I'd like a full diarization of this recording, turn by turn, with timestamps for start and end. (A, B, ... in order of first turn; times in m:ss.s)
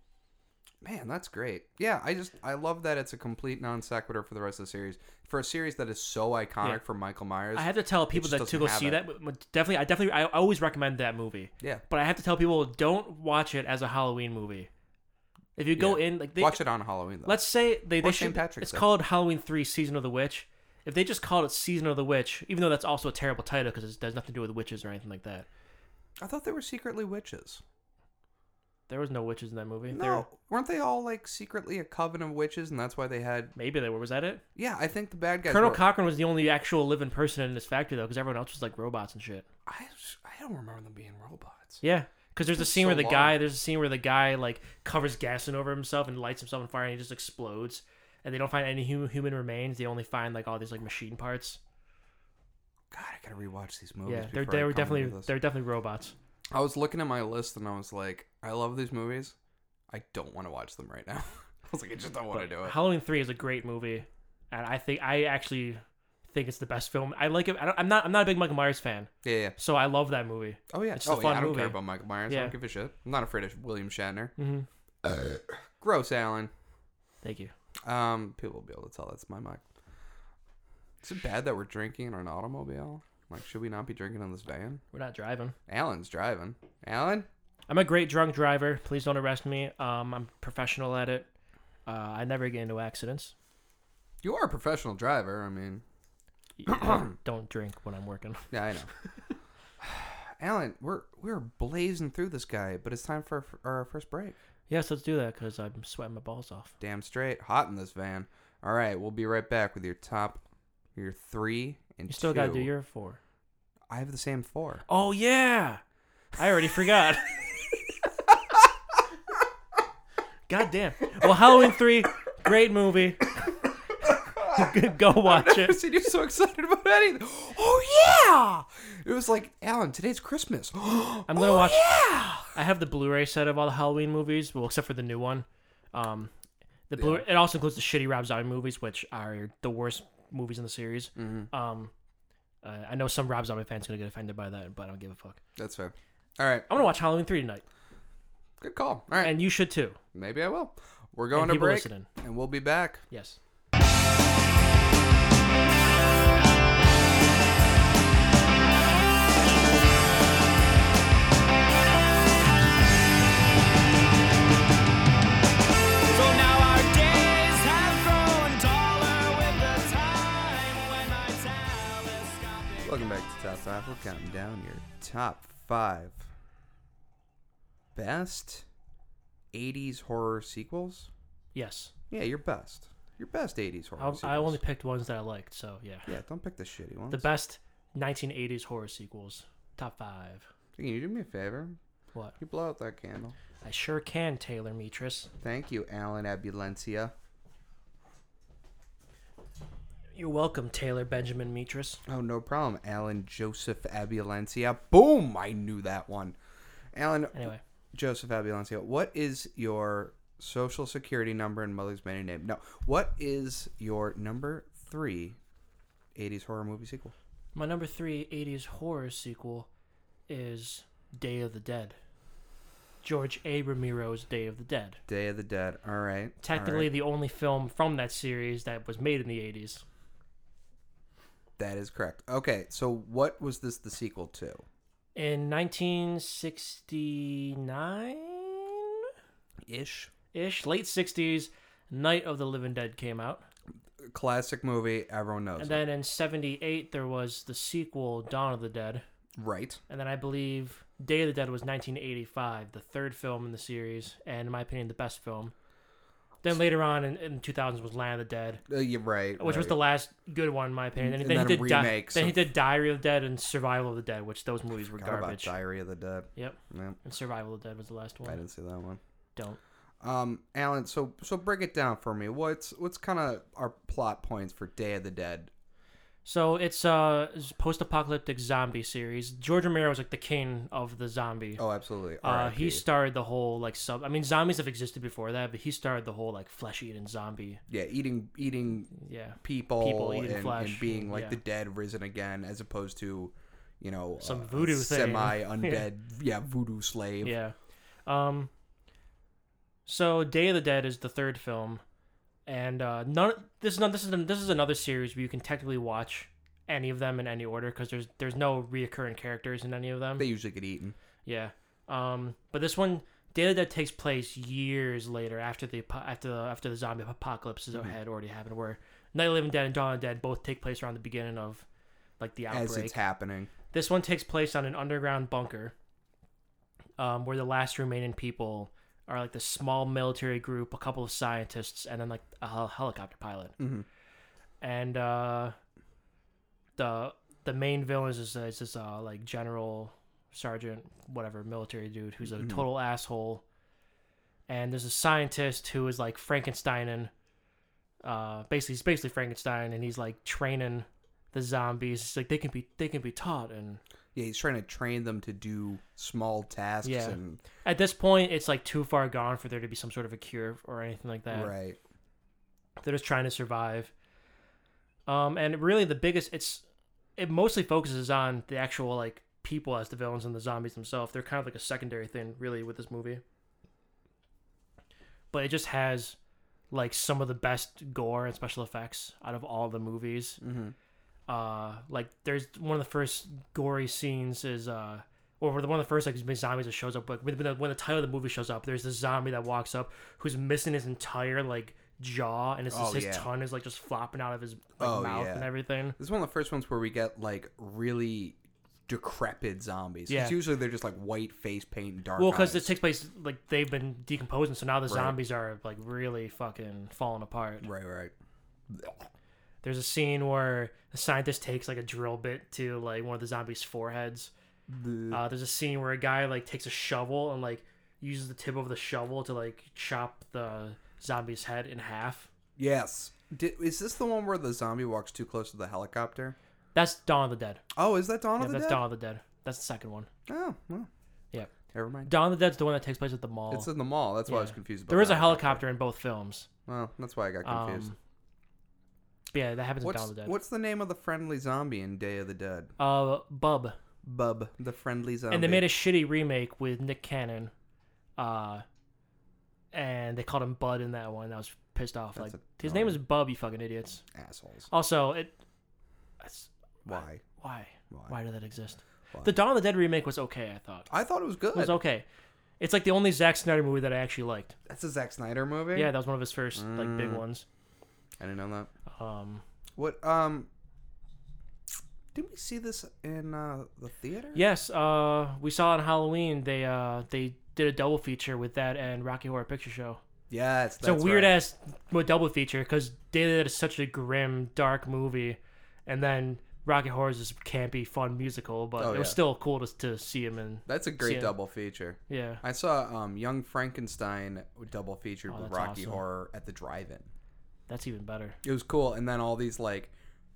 0:00.8-0:09.0 A
0:07.6-0:14.7 B
0:15.6-0:16.6 B
0:15.8-0:17.4 A
0:17.2-0:25.5 B
0:18.0-0:18.9 A
0:26.2-0:27.6 A
0:28.9-0:30.3 B
0:29.9-0:33.5 A
0:33.6-0:34.4 B
0:34.6-0:35.8 A
0:35.5-0:39.5 B
0:39.7-0:41.8 A
0:41.8-0:51.6 B
0:42.5-0:43.4 A
0:52.9-0:55.3 A
0:54.1-0:56.2 B
0:56.5-0:59.4 A
0:59.9-1:02.8 A
1:02.3-1:12.5 B
1:09.2-1:09.6 A
1:10.7-1:14.3 A
1:14.4-1:14.7 B
1:15.0-1:16.5 A
1:17.2-1:17.5 B
1:17.8-1:19.6 A
1:21.0-1:24.8 A
1:24.9-1:25.6 B
1:25.7-1:27.3 A
1:27.7-1:31.3 B
1:31.9-1:33.3 B
1:34.2-1:35.8 A
1:36.6-1:39.3 B
1:36.7-1:37.1 A
1:38.5-1:38.9 A
1:39.8-1:44.4 A
1:44.7-1:46.7 B
1:46.8-1:50.4 A
1:51.0-1:52.7 A
1:52.1-1:53.2 B
1:53.9-1:54.8 A
1:54.9-1:55.8 B
1:56.4-1:57.5 B
1:58.3-1:58.7 A
2:00.5-2:05.8 B
2:04.0-2:12.5 A
2:11.3-2:11.9 B
2:12.5-2:16.3 B
2:16.9-2:21.9 B
2:16.9-2:17.2 A
2:21.2-2:21.5 A
2:22.6-2:25.4 B
2:25.6-2:26.7 A
2:26.7-2:27.6 B
2:28.6-2:29.4 A
2:29.2-2:30.0 B
2:30.1-2:33.0 A
2:31.3-2:32.1 B
2:33.1-2:33.4 B
2:46.1-2:53.0 C
2:52.8-2:56.3 A
2:58.0-2:58.6 A
2:59.5-3:01.1 A
3:01.5-3:01.9 B
3:02.1-3:04.6 A
3:04.0-3:06.1 B
3:06.1-3:07.3 A
3:07.1-3:10.5 B
3:10.8-3:11.8 A
3:12.4-3:13.4 A
3:13.6-3:15.3 B
3:15.4-3:17.1 A
3:20.2-3:22.0 B
3:22.1-3:26.4 A
3:26.9-3:35.4 A
3:27.4-3:27.6 B
3:36.2-3:37.1 A
3:37.6-3:39.7 B
3:40.3-3:42.0 B
3:43.0-3:45.0 B
3:45.1-3:46.9 A
3:46.4-3:49.8 B
3:51.6-3:54.6 A
3:55.2-3:59.1 B
3:59.6-4:00.1 A
4:00.3-4:03.5 B
4:04.1-4:05.8 A
4:05.6-4:09.0 B
4:09.4-4:09.8 A
4:09.9-4:15.5 B
4:16.4-4:18.6 B
4:18.7-4:19.8 A
4:19.4-4:25.6 B
4:21.0-4:22.4 A
4:24.9-4:27.0 A
4:26.4-4:28.4 B
4:28.2-4:29.0 A
4:30.0-4:35.5 A
4:36.2-4:41.6 B
4:41.6-4:42.8 A
4:42.2-4:47.6 B
4:47.7-4:57.4 A
4:48.9-4:51.4 B
4:54.2-4:55.9 B
4:57.2-4:58.5 B
4:59.9-5:01.8 B
5:02.5-5:10.3 B
5:10.2-5:11.0 A
5:11.2-5:21.6 B
5:22.2-5:23.0 B
5:22.5-5:23.5 A
5:23.7-5:25.7 B
5:27.0-5:33.6 B
5:33.6-5:33.9 A
5:34.6-5:35.6 B
5:36.8-5:43.4 B
5:42.3-5:42.6 A
5:44.5-5:47.1 B
5:48.0-5:53.8 B
5:54.2-5:57.4 A
5:56.8-6:01.5 B
6:01.3-6:01.8 A
6:02.8-6:03.9 B
6:05.1-6:06.6 B
6:07.2-6:13.2 B
6:15.3-6:16.2 B
6:16.7-6:20.4 B
6:20.4-6:20.8 A
6:21.3-6:36.0 B
6:32.7-6:33.3 A
6:34.8-6:42.7 A
6:40.1-6:40.4 B
6:42.2-6:47.7 B
6:44.9-6:45.2 A
6:47.6-6:48.1 A
6:48.7-6:49.1 A
6:49.6-6:54.3 B
6:54.7-6:55.2 A
6:55.1-7:02.3 B
7:02.6-7:06.4 A
7:06.8-7:07.6 B
7:07.7-7:08.8 A
7:08.4-7:10.1 B
7:10.3-7:10.9 A
7:11.7-7:12.1 A
7:12.0-7:13.7 B
7:13.5-7:15.6 A
7:14.3-7:16.5 B
7:16.7-7:17.9 A
7:17.4-7:18.0 B
7:19.3-7:20.4 B
7:19.8-7:22.7 A
7:22.8-7:23.8 B
7:24.0-7:25.6 A
7:25.3-7:27.5 B
7:28.2-7:28.6 B
7:29.7-7:34.0 B
7:32.2-7:33.0 A
7:34.1-7:34.7 A
7:34.7-7:35.4 B
7:36.2-7:40.9 B
7:36.8-7:37.2 A
7:37.9-7:38.2 A
7:40.9-7:41.8 A
7:41.5-7:42.0 B
7:42.6-7:44.6 B
7:44.7-7:45.9 A
7:45.7-7:47.4 B
7:46.6-7:47.2 A
7:48.2-7:48.7 A
7:48.9-7:49.4 B
7:49.8-7:50.5 A
7:52.1-7:54.4 A
7:54.3-8:00.0 B
8:00.3-8:01.4 A
8:00.8-8:11.3 B
8:08.8-8:09.2 A
8:10.7-8:17.1 A
8:12.1-8:12.4 B
8:15.3-8:16.0 B
8:17.7-8:18.4 B
8:18.4-8:19.9 A